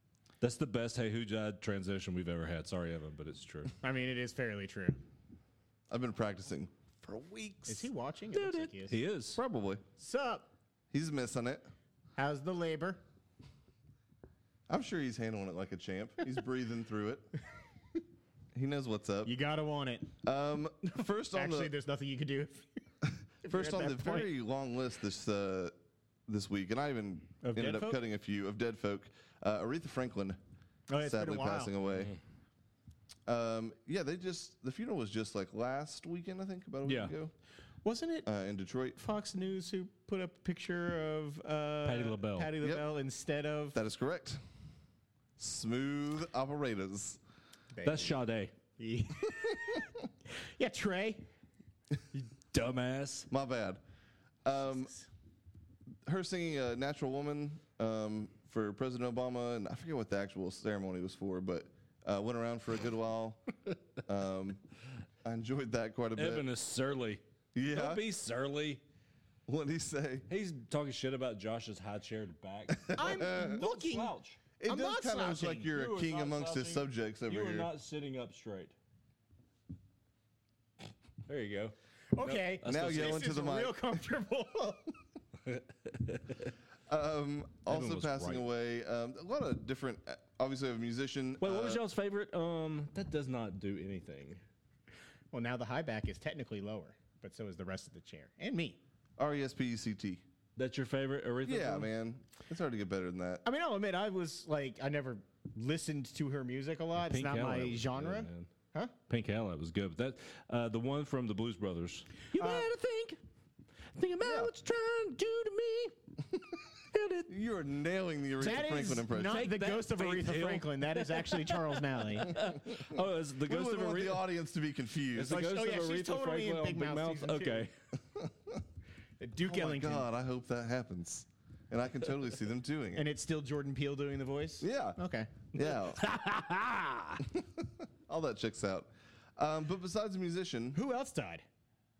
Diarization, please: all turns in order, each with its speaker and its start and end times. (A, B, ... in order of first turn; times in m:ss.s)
0:00.4-0:03.7 A
0:03.8-0:05.0 B
0:05.9-0:07.9 C
0:07.6-0:09.0 B
0:08.3-0:09.4 A
0:09.3-0:09.8 C
0:10.0-0:10.5 B
0:10.9-0:11.7 C
0:12.2-0:13.0 B
0:14.7-0:17.3 C
0:18.5-0:19.3 C
0:19.2-0:20.2 B
0:20.2-0:21.7 C
0:21.3-0:22.7 B
0:23.0-0:25.7 C
0:23.4-0:24.3 B
0:26.3-0:30.4 C
0:27.4-0:28.0 B
0:30.9-0:31.7 B
0:31.0-0:32.1 C
0:33.2-0:37.3 C
0:36.8-0:37.1 A
0:37.8-0:38.3 B
0:38.2-0:39.0 C
0:39.0-0:43.8 B
0:41.8-0:42.5 A
0:43.7-0:44.4 C
0:45.4-0:47.2 C
0:47.7-0:48.2 B
0:47.8-0:48.5 A
0:48.8-0:51.2 B
0:52.1-0:53.3 A
0:53.3-0:53.8 C
0:54.4-0:54.9 C
0:56.0-1:03.4 C
1:04.0-1:04.6 C
1:05.2-1:06.4 C
1:06.2-1:08.8 A
1:07.5-1:08.0 C
1:09.5-1:10.3 C
1:10.3-1:14.4 A
1:12.7-1:13.6 C
1:13.0-1:14.1 B
1:14.6-1:17.7 C
1:14.6-1:15.7 B
1:15.6-1:18.7 A
1:21.3-1:23.2 A
1:22.1-1:24.9 B
1:22.6-1:23.8 C
1:25.5-1:26.5 A
1:26.9-1:31.8 C
1:27.7-1:28.4 A
1:31.4-1:34.4 A
1:35.3-1:38.8 B
1:39.2-1:40.2 C
1:40.6-1:41.9 A
1:41.4-1:43.4 C
1:43.4-1:48.9 B
1:47.0-1:48.5 A
1:49.1-1:53.2 A
1:52.4-1:52.7 B
1:53.9-1:56.0 A
1:54.2-1:54.5 C
1:56.9-1:57.3 A
1:57.3-1:59.4 C
1:58.4-2:02.4 B
1:59.2-2:04.2 A
2:02.7-2:05.4 C
2:05.1-2:07.7 A
2:05.3-2:07.7 B
2:08.1-2:08.6 C
2:09.2-2:10.1 B
2:09.4-2:13.0 C
2:12.9-2:15.3 B
2:14.6-2:15.0 C
2:15.5-2:16.0 C
2:16.0-2:17.2 A
2:17.2-2:20.8 C
2:20.7-2:21.4 B